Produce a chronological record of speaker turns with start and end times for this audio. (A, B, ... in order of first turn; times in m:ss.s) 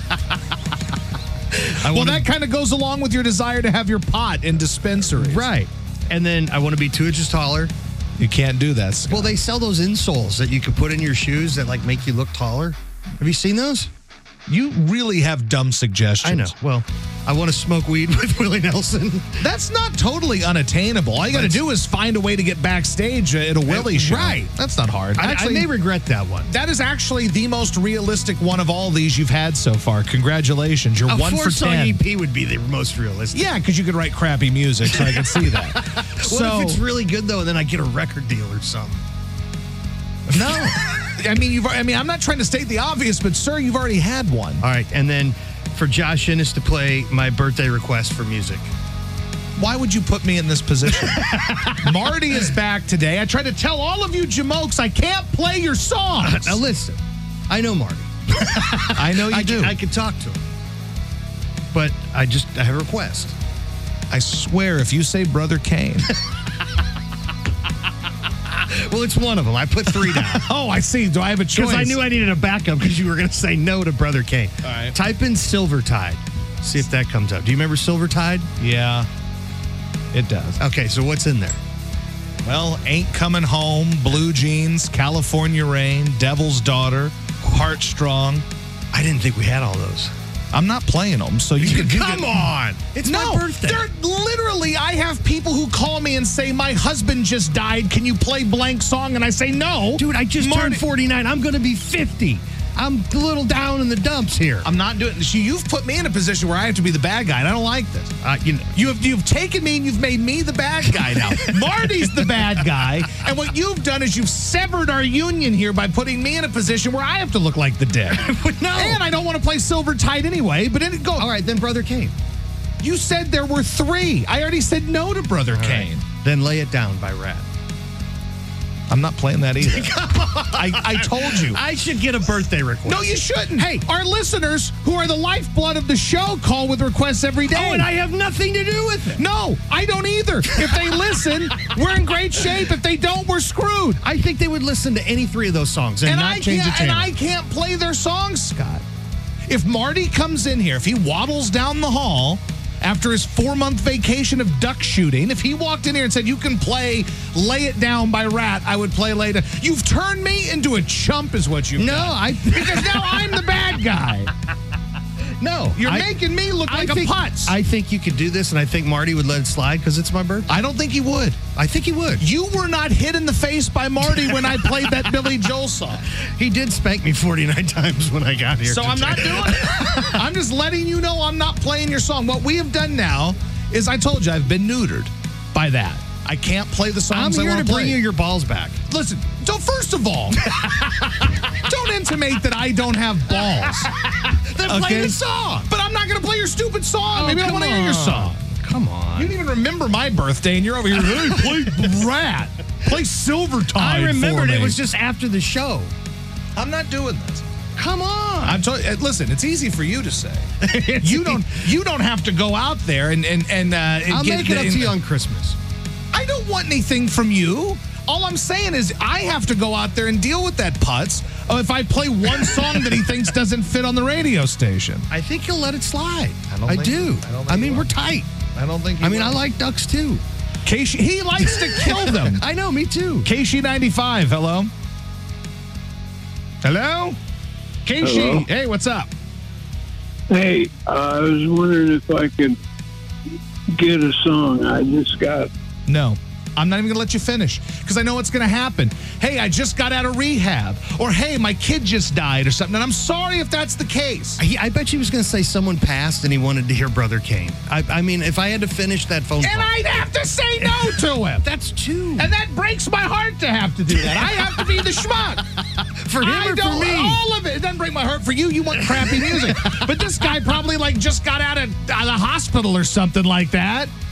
0:01.6-0:02.3 A
0:01.8-0:05.5 B
0:05.2-0:07.7 A
0:08.2-0:09.4 B
0:09.1-0:13.9 A
0:14.5-0:16.5 B
0:16.2-0:19.4 A
0:19.4-0:25.7 B
0:21.3-0:21.6 A
0:23.7-0:24.5 A
0:25.2-0:26.5 A
0:26.5-0:32.0 B
0:31.1-0:33.5 A
0:33.3-0:36.8 B
0:34.9-0:39.0 A
0:40.3-0:44.6 B
0:40.3-0:40.7 A
0:44.6-0:48.7 A
0:49.6-0:56.6 B
0:51.0-0:51.9 A
0:56.2-1:00.4 A
0:58.9-0:59.8 B
1:01.7-1:03.4 A
1:04.1-1:06.1 B
1:08.5-1:10.5 A
1:10.3-1:12.0 B
1:11.6-1:18.5 A
1:14.6-1:15.0 B
1:18.6-1:19.1 B
1:20.1-1:20.6 B
1:20.6-1:21.6 A
1:22.4-1:28.5 B
1:28.9-1:30.1 A
1:30.5-1:32.5 B
1:31.6-1:33.9 A
1:33.0-1:40.8 B
1:40.0-1:44.7 A
1:44.6-1:48.1 B
1:48.2-1:48.7 A
1:48.7-2:01.3 B
1:51.0-1:52.5 A
1:58.1-1:59.0 A
2:01.2-2:02.1 A
2:02.8-2:06.0 B
2:05.5-2:07.5 A
2:08.9-2:11.6 B
2:09.6-2:13.8 A
2:12.9-2:17.9 B
2:17.5-2:19.2 A
2:19.2-2:24.0 B
2:24.0-2:27.1 A
2:26.1-2:28.8 B
2:29.5-2:44.3 B
2:41.8-2:43.6 A
2:45.4-2:46.1 A
2:45.8-2:47.6 B
2:46.7-2:50.5 A
2:50.5-2:51.4 B
2:51.6-2:52.2 A
2:52.2-2:56.1 B
2:54.3-2:55.1 A
2:56.2-3:00.2 A
2:58.6-3:08.0 B
3:07.1-3:08.8 A
3:08.9-3:10.6 B
3:10.5-3:10.9 A
3:11.6-3:13.9 B
3:14.2-3:15.7 A
3:14.6-3:18.4 B
3:17.1-3:19.4 A
3:19.2-3:24.8 B
3:21.0-3:21.9 A
3:23.8-3:25.9 A
3:26.6-3:27.5 B
3:27.8-3:28.6 A
3:28.4-3:35.0 B
3:30.6-3:31.6 A
3:34.1-3:35.6 A
3:36.1-3:45.1 B
3:45.1-3:48.3 A
3:46.6-3:47.9 B
3:48.6-3:49.4 B
3:49.0-3:50.2 A
3:50.7-3:52.4 B
3:51.5-3:53.3 A
3:53.2-3:54.7 B
3:56.6-3:57.2 B
3:57.8-3:59.1 B
3:58.0-3:58.5 C
4:00.3-4:02.6 C
4:03.8-4:05.5 C
4:05.9-4:14.4 B
4:14.4-4:19.8 A
4:19.4-4:21.5 B
4:20.6-4:22.3 A
4:22.2-4:25.4 B
4:24.1-4:24.6 A
4:26.0-4:27.2 A
4:26.2-4:33.9 B
4:28.8-4:30.3 A